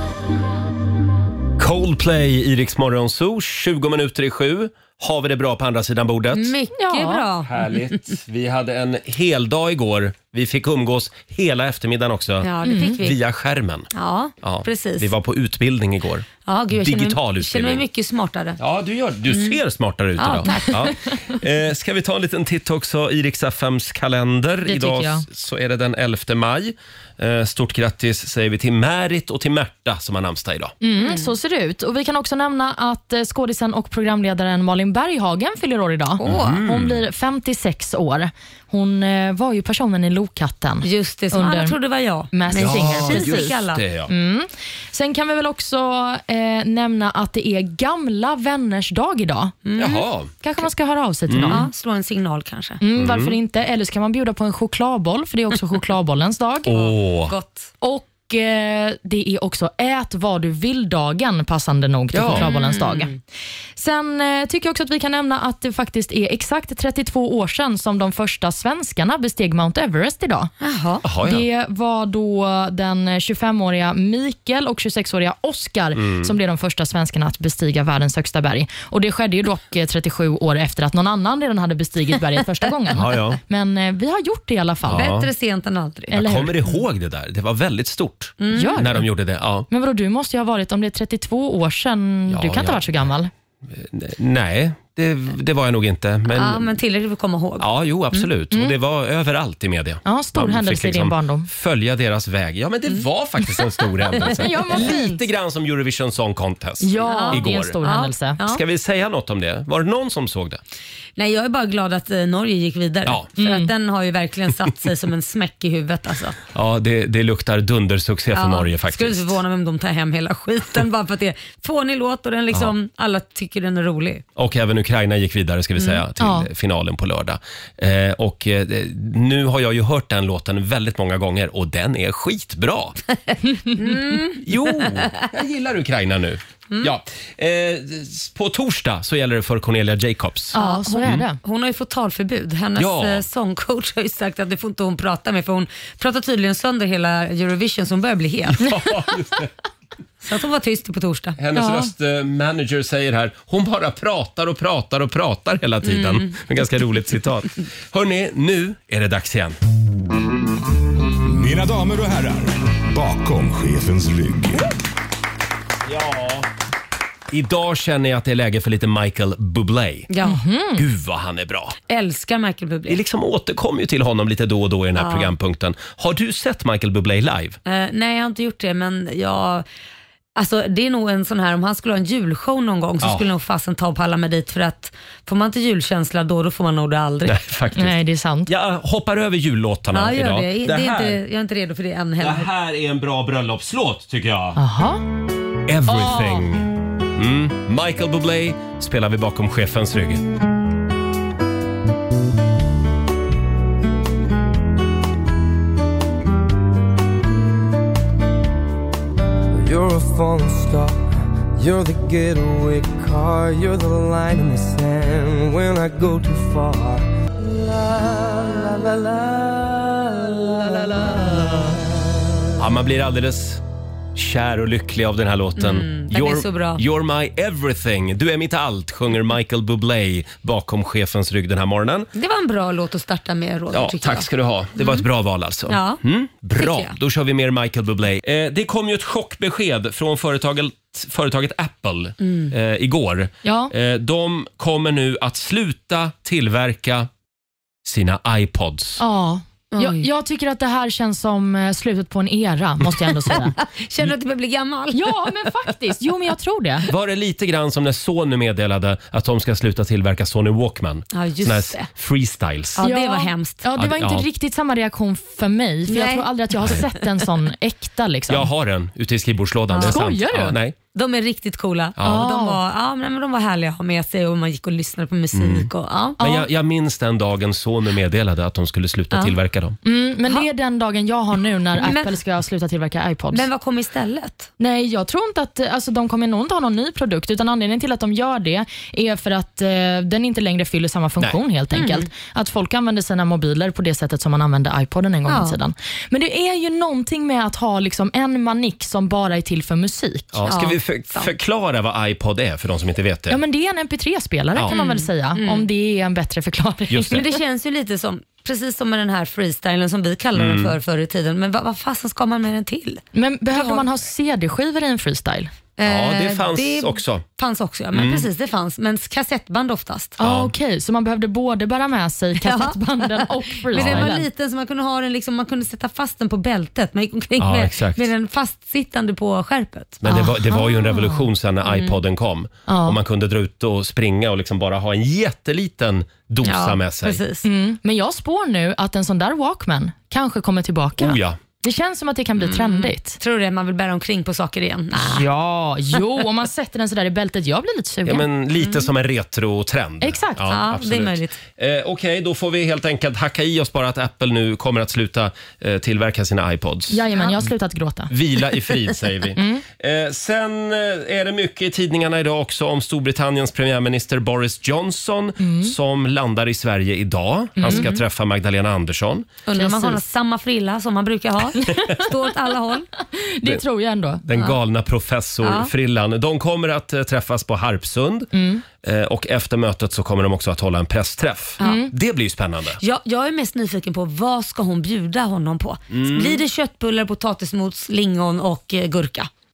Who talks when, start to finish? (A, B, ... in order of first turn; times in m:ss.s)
0:01.6-0:06.5 A
0:06.3-0:07.8 B
0:06.8-0:07.2 C
0:07.4-0:13.9 A
0:12.4-0:13.2 B
0:12.6-0:13.0 C
0:13.9-0:15.1 B
0:14.4-0:17.8 A
0:16.4-0:18.6 B
0:18.6-0:30.7 A
0:19.3-0:19.6 B
0:20.2-0:20.9 B
0:24.7-0:25.2 C
0:30.8-0:41.8 C
0:31.0-0:31.3 B
0:36.2-0:36.6 B
0:36.2-0:37.0 A
0:40.8-0:43.8 B
0:42.3-0:43.5 C
0:42.5-0:44.1 A
0:44.1-0:49.6 C
0:49.6-0:50.0 B
0:49.8-0:50.3 A
0:50.4-0:51.6 C
0:51.3-0:51.6 A
0:51.5-0:52.8 B
0:52.8-0:56.7 C
0:53.0-0:53.4 A
0:56.7-0:57.3 A
0:56.7-0:57.7 B
0:57.8-1:03.1 C
1:02.1-1:02.5 A
1:02.3-1:03.2 B
1:03.8-1:10.5 C
1:10.6-1:11.0 B
1:11.0-1:11.4 A
1:11.2-1:25.1 C
1:16.0-1:16.3 A
1:22.9-1:23.4 A
1:24.8-1:25.3 A
1:24.9-1:26.2 B
1:26.1-1:26.6 C
1:26.1-1:29.7 A
1:28.4-1:28.9 B
1:28.5-1:29.0 C
1:29.7-1:33.3 C
1:32.3-1:33.0 A
1:33.7-1:36.7 A
1:36.3-1:38.2 B
1:37.6-1:47.8 A
1:40.0-1:41.5 C
1:44.2-1:45.2 C
1:46.8-1:48.4 C
1:47.0-1:48.6 B
1:48.4-1:50.6 A
1:51.2-1:56.4 B
1:53.4-1:53.7 C
1:56.5-1:59.4 A
1:58.3-2:04.2 B
2:04.4-2:13.0 A
2:05.8-2:06.0 B
2:06.2-2:06.5 C
2:13.3-2:15.3 B
2:13.6-2:14.2 C
2:14.4-2:21.2 A
2:20.5-2:21.4 C
2:20.5-2:28.6 B
2:22.8-2:23.2 A
2:28.5-2:29.5 A
2:30.2-2:31.4 B
2:31.4-2:39.6 A
2:31.5-2:31.9 C
2:35.8-2:36.4 B
2:41.2-2:44.7 D
2:45.8-2:46.5 A
2:47.3-2:50.1 A
2:50.1-2:50.4 B
2:50.2-2:50.8 C
2:50.8-2:51.8 A
2:51.9-2:53.0 B
2:52.9-2:57.6 A
2:54.9-2:55.3 B
2:57.6-2:59.6 B
3:00.4-3:07.4 B
3:07.2-3:07.9 A
3:07.8-3:08.5 C
3:08.5-3:11.2 A
3:09.9-3:12.5 B
3:12.2-3:14.6 A
3:14.6-3:15.0 C
3:15.7-3:20.2 A
3:15.9-3:16.4 C
3:29.5-3:41.8 E
3:42.6-3:43.6 A
3:44.1-3:52.1 A
3:45.6-3:46.8 B
3:52.1-3:55.0 B
3:53.7-4:07.1 A
3:55.7-3:56.0 B
3:56.6-3:56.9 B
4:02.2-4:02.5 B
4:03.4-4:03.7 C
4:07.8-4:09.0 A
4:09.0-4:13.5 C
4:09.7-4:10.1 B
4:13.6-4:15.5 B
4:14.9-4:16.8 C
4:16.9-4:22.8 A
4:21.1-4:21.9 B
4:22.8-4:23.6 B
4:22.8-4:28.5 C
4:23.8-4:24.3 A
4:25.9-4:26.9 B
4:28.3-4:30.8 A
4:29.7-4:30.6 C
4:30.9-4:36.2 B
4:32.0-4:32.3 A
4:32.0-4:32.6 C
4:35.3-4:39.8 A
4:36.2-4:36.4 C
4:39.8-4:43.4 C
4:41.7-4:42.2 B
4:43.3-4:44.5 B
4:44.6-5:00.4 C
4:51.7-4:52.1 B
4:55.2-4:55.6 B
5:00.3-5:03.4 A
5:00.5-5:01.3 B
5:03.3-5:07.2 C
5:04.7-5:05.7 B
5:06.9-5:07.2 A
5:07.1-5:13.8 B
5:10.3-5:10.7 A
5:13.1-5:15.5 C
5:15.8-5:20.2 B
5:15.8-5:17.2 A
5:17.9-5:18.3 A
5:20.2-5:24.2 C
5:20.2-5:20.5 A
5:22.4-5:30.4 B
5:23.7-5:24.1 A
5:27.4-5:28.1 A
5:30.0-5:37.2 A
5:30.1-5:31.2 C
5:31.6-5:32.0 B
5:32.7-5:33.0 C
5:36.4-5:37.4 B
5:37.4-5:43.2 C
5:41.0-5:41.4 A
5:42.4-5:45.3 B
5:45.0-5:48.2 C
5:48.0-5:57.0 A
5:50.0-5:50.4 C
5:50.4-5:51.4 B
5:56.9-5:58.1 C
5:58.1-6:09.3 A
5:59.4-5:59.6 C
6:05.4-6:05.7 C
6:07.6-6:07.8 C
6:07.6-6:08.0 B
6:09.4-6:12.9 B
6:09.6-6:10.0 C
6:11.6-6:12.0 C
6:13.1-6:14.2 C
6:14.2-6:22.8 A
6:15.4-6:15.7 B
6:18.3-6:18.6 C
6:21.6-6:21.9 B
6:21.6-6:21.9 C
6:22.8-6:29.3 B
6:25.9-6:26.4 A